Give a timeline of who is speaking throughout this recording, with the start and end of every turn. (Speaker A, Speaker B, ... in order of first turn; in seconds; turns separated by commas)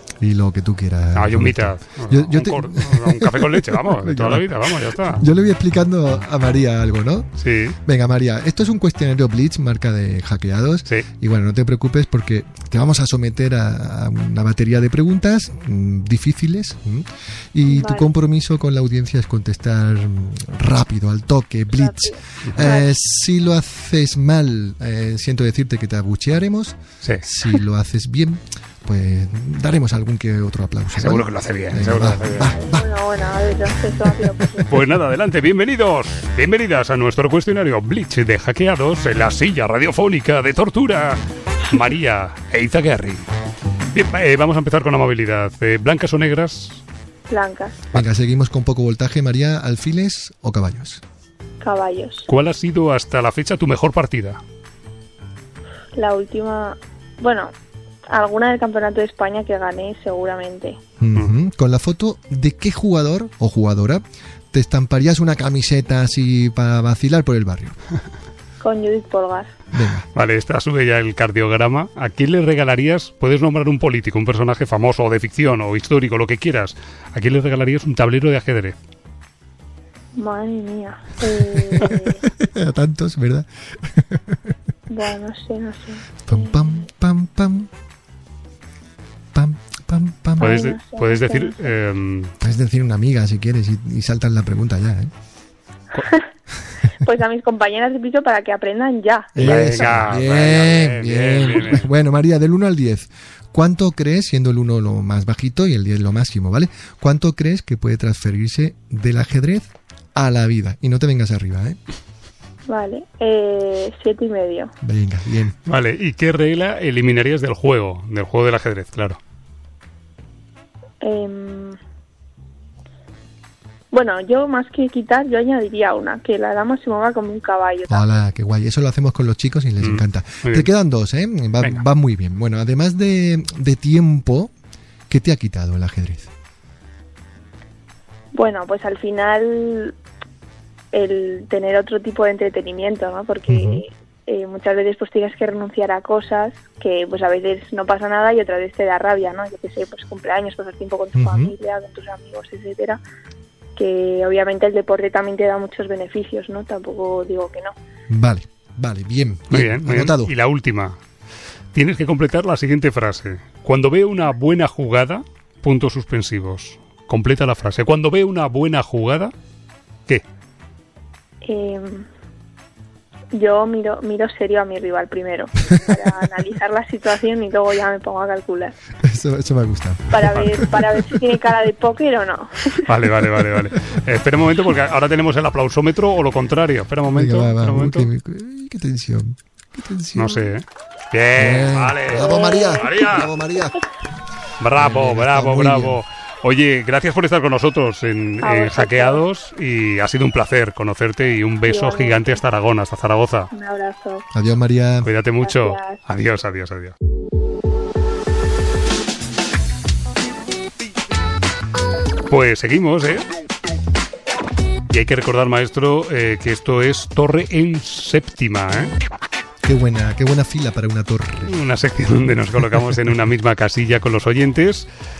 Speaker A: 0.2-7.3, Speaker B: 1.1-5.3, Speaker B: 7.4-7.8, Speaker A: 7.8-32.9, Speaker C: 17.7-18.1, Speaker C: 21.7-22.9, Speaker B: 31.0-32.5, Speaker C: 32.6-34.8, Speaker B: 34.7-43.3, Speaker B: 43.9-46.8, Speaker C: 47.3-47.8, Speaker A: 47.9-51.0, Speaker C: 51.6-52.3, Speaker B: 52.3-54.4, Speaker C: 56.0-57.5, Speaker C: 58.1-60.8, Speaker A: 61.0-67.8, Speaker C: 68.6-69.5, Speaker A: 69.7-70.1, Speaker B: 70.2-78.8, Speaker C: 80.2-82.2, Speaker A: 81.5-84.5, Speaker C: 84.9-86.8, Speaker A: 86.3-87.7, Speaker A: 89.3-90.7, Speaker C: 90.4-91.7, Speaker B: 90.4-92.3, Speaker A: 92.4-95.1, Speaker C: 97.0-100.0, Speaker A: 99.3-111.8, Speaker B: 99.4-101.9, Speaker C: 112.7-114.7, Speaker A: 114.8-115.5, Speaker B: 115.7-119.2, Speaker C: 121.0-121.8, Speaker C: 123.9-128.0, Speaker A: 127.9-134.5, Speaker B: 129.8-130.7, Speaker A: 135.1-136.3, Speaker C: 138.3-140.0, Speaker C: 140.9-153.0, Speaker A: 143.5-143.8, Speaker A: 151.2-151.5, Speaker C: 153.8-157.8, Speaker A: 158.1-160.3, Speaker B: 159.5-161.0, Speaker B: 161.7-169.3, Speaker C: 171.4-172.1, Speaker C: 173.3-178.8, Speaker A: 179.0-181.2, Speaker C: 180.1-182.8, Speaker B: 180.3-180.6, Speaker B: 182.8-188.1, Speaker A: 187.1-190.5, Speaker B: 190.2-193.3, Speaker A: 191.4-193.8, Speaker C: 192.2-192.9, Speaker B: 194.6-203.5, Speaker A: 194.8-196.0, Speaker C: 198.4-199.2, Speaker C: 201.7-202.4, Speaker C: 203.5-204.3, Speaker A: 204.3-205.1, Speaker B: 205.0-206.9, Speaker C: 205.4-206.0, Speaker B: 212.3-213.2, Speaker B: 214.9-218.9, Speaker A: 219.6-221.6, Speaker B: 221.5-224.9